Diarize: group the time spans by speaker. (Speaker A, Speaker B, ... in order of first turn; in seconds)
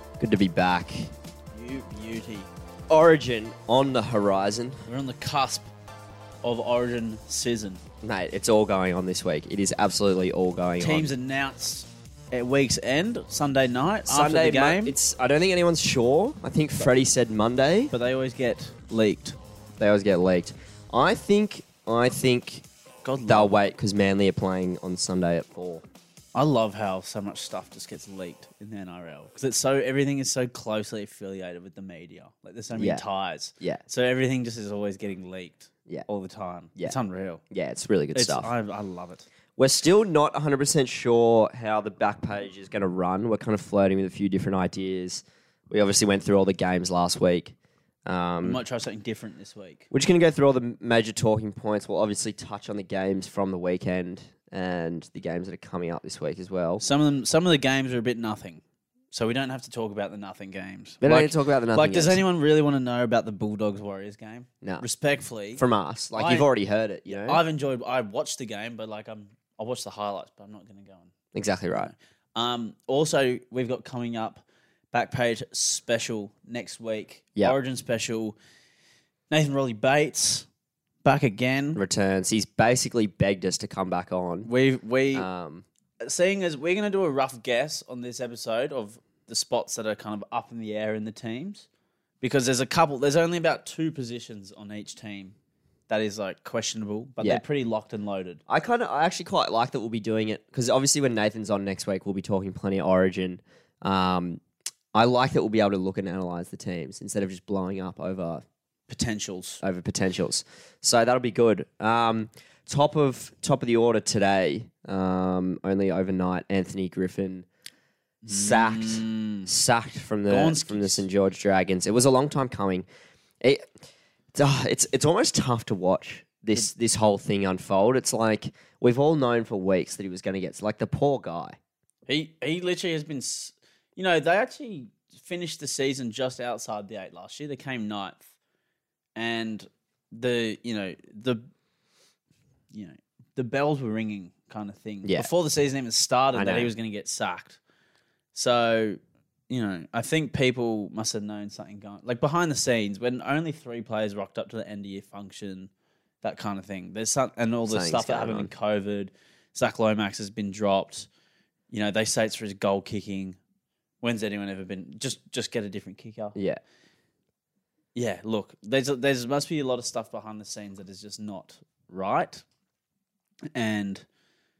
Speaker A: 0.2-1.1, 2.9-4.8, 8.0-11.1, 14.1-17.9, 19.8-22.7, 23.2-25.8, 32.8-33.0, 37.5-38.5, 39.6-48.6, 49.9-56.8, 61.0-62.2, 65.6-67.4, 71.3-71.9, 81.8-84.5, 85.1-85.7, 98.5-104.4, 104.9-108.4, 109.6-117.5, 118.3-122.9, 123.4-123.7, 124.3-131.6, 145.0-145.3, 146.3-146.7, 157.7-158.5, 166.3-166.6
Speaker B: 1.6-2.5, 4.9-5.7, 6.4-7.8, 10.8-15.0, 17.9-19.4, 23.1-23.5, 26.4-37.4, 38.1-39.3, 48.4-49.9, 56.8-65.6, 66.2-66.5, 67.1-71.1, 71.8-78.4, 79.3-80.5, 81.0-81.8, 84.5-85.3, 86.0-91.7, 92.2-95.3, 95.9-98.4, 108.9-109.6, 118.2-119.5, 120.3-121.1, 132.1-138.2, 139.2-141.4, 142.7-147.6, 148.3-155.7, 156.2-161.1, 161.7-163.4, 164.0-166.4, 167.9-172.4, 173.5-174.1